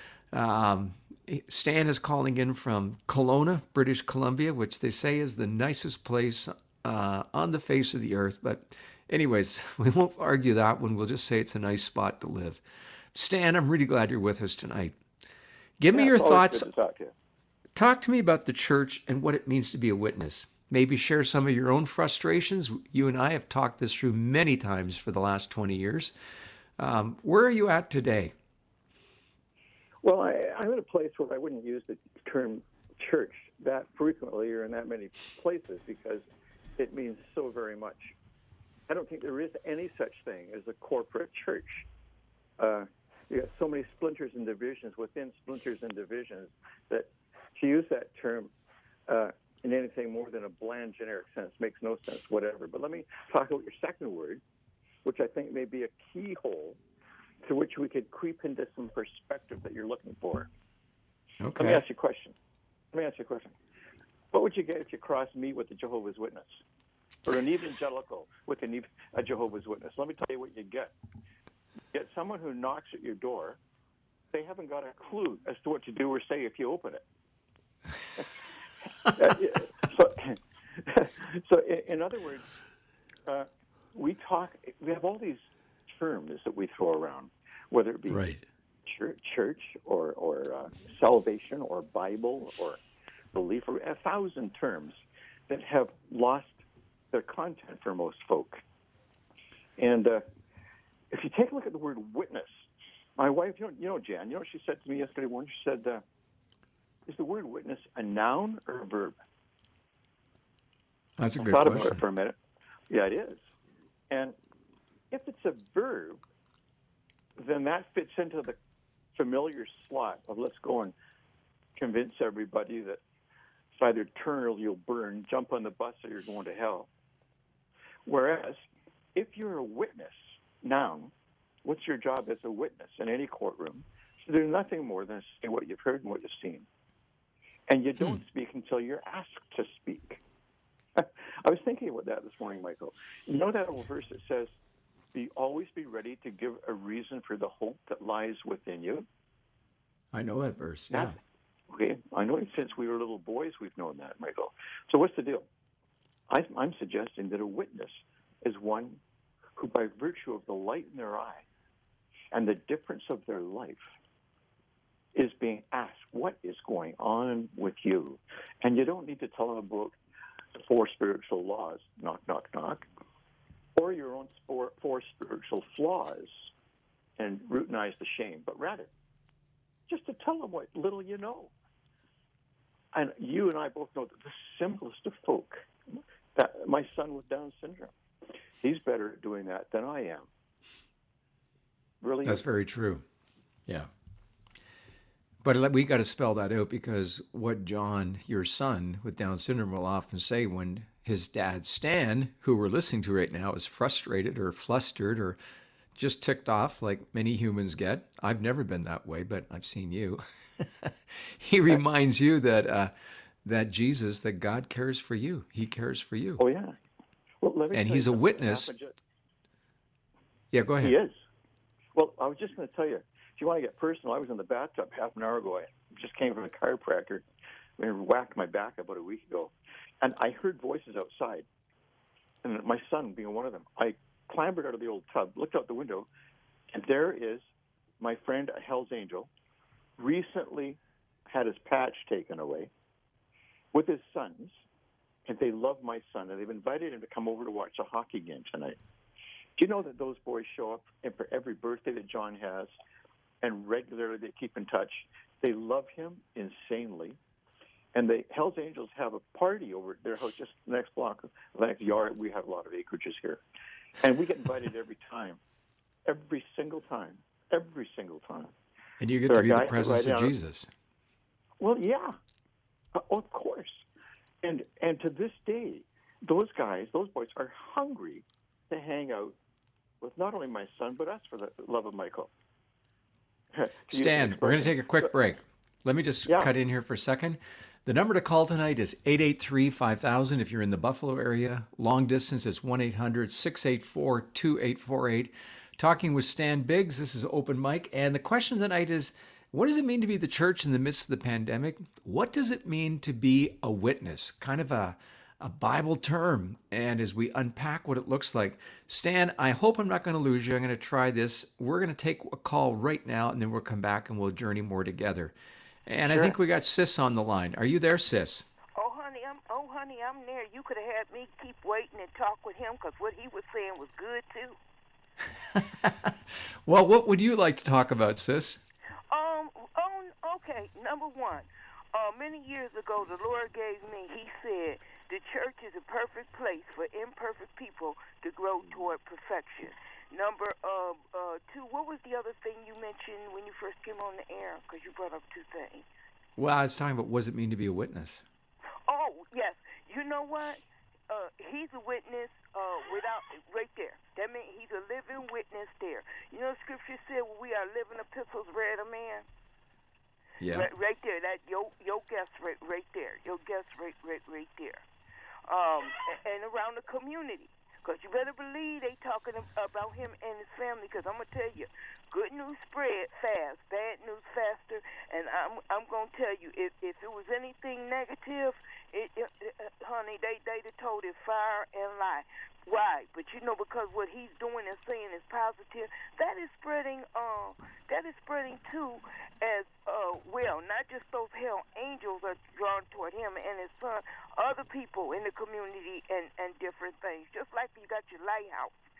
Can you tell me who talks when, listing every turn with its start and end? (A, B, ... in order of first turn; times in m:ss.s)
0:00.3-0:12.6 A
0:13.1-0:15.0 A
0:15.8-0:16.7 A
0:15.9-0:17.1 B
0:17.7-0:26.1 A
0:26.8-0:28.3 A
0:30.0-0:36.2 B
0:36.8-0:38.1 B
0:38.9-0:41.8 B
0:42.6-0:48.5 B
0:49.1-0:54.4 B
0:55.0-0:56.8 B
0:57.4-1:00.5 B
1:01.4-1:01.8 A
1:01.6-1:02.4 B
1:02.9-1:03.5 B
1:04.3-1:06.6 B
1:07.2-1:10.9 B
1:11.9-1:13.6 B
1:14.3-1:17.0 B
1:19.0-1:22.5 B
1:23.2-1:28.3 B
1:28.1-1:28.4 A
1:28.8-1:32.8 B
1:33.3-1:35.0 B
1:35.5-1:38.6 B
1:39.8-1:40.2 B
1:41.1-1:42.6 B
1:43.2-1:46.0 B
1:47.1-1:49.1 B
1:51.2-1:52.0 A
1:51.4-1:52.4 B
1:52.9-1:53.4 B
1:54.1-1:54.3 B
1:55.1-1:56.2 B
1:57.4-1:58.6 B
1:59.1-2:00.9 B
2:01.8-2:03.0 B
2:03.7-2:06.9 B
2:08.0-2:11.1 B
2:11.6-2:16.6 B
2:17.7-2:20.2 B
2:21.0-2:24.5 B
2:25.1-2:29.1 B
2:30.1-2:31.2 A
2:30.9-2:31.2 B
2:31.7-2:35.5 B
2:36.3-2:39.0 B
2:39.6-2:41.4 B
2:42.3-2:43.8 B
2:45.1-2:50.0 B
2:50.6-2:52.8 B
2:53.8-2:56.5 B
2:57.2-2:58.9 B
2:59.9-3:01.5 B
3:02.9-3:05.6 B
3:06.3-3:07.9 B
3:08.6-3:10.3 B
3:12.0-3:12.4 B
3:12.2-3:13.0 A
3:15.4-3:25.4 A
3:26.0-3:36.4 A
3:36.4-3:36.8 B
3:37.4-3:38.9 B
3:37.7-3:38.7 A
3:40.5-3:41.0 A
3:40.8-3:41.2 B
3:41.9-3:47.2 B
3:47.8-3:51.4 B
3:52.4-3:56.1 B
3:56.7-3:57.4 B
3:58.0-3:59.3 B
4:00.0-4:02.7 B
4:03.7-4:04.6 B
4:05.3-4:08.8 B
4:09.6-4:12.7 B
4:13.4-4:17.2 B
4:17.9-4:23.4 B
4:24.0-4:25.4 B
4:26.0-4:28.5 B
4:29.0-4:30.7 A
4:29.3-4:30.3 B
4:31.6-4:32.2 B
4:32.9-4:33.8 B
4:34.4-4:39.4 B
4:40.0-4:42.3 B
4:43.5-4:45.1 B
4:43.9-5:15.3 A
4:46.3-4:46.5 B
5:15.8-5:18.5 A
5:18.8-5:24.6 C
5:25.5-5:28.6 A
5:29.1-5:45.8 C
5:46.4-5:48.2 A
5:48.8-5:59.2 C
6:00.4-6:00.7 A
6:00.5-6:04.8 C
6:05.5-6:38.7 C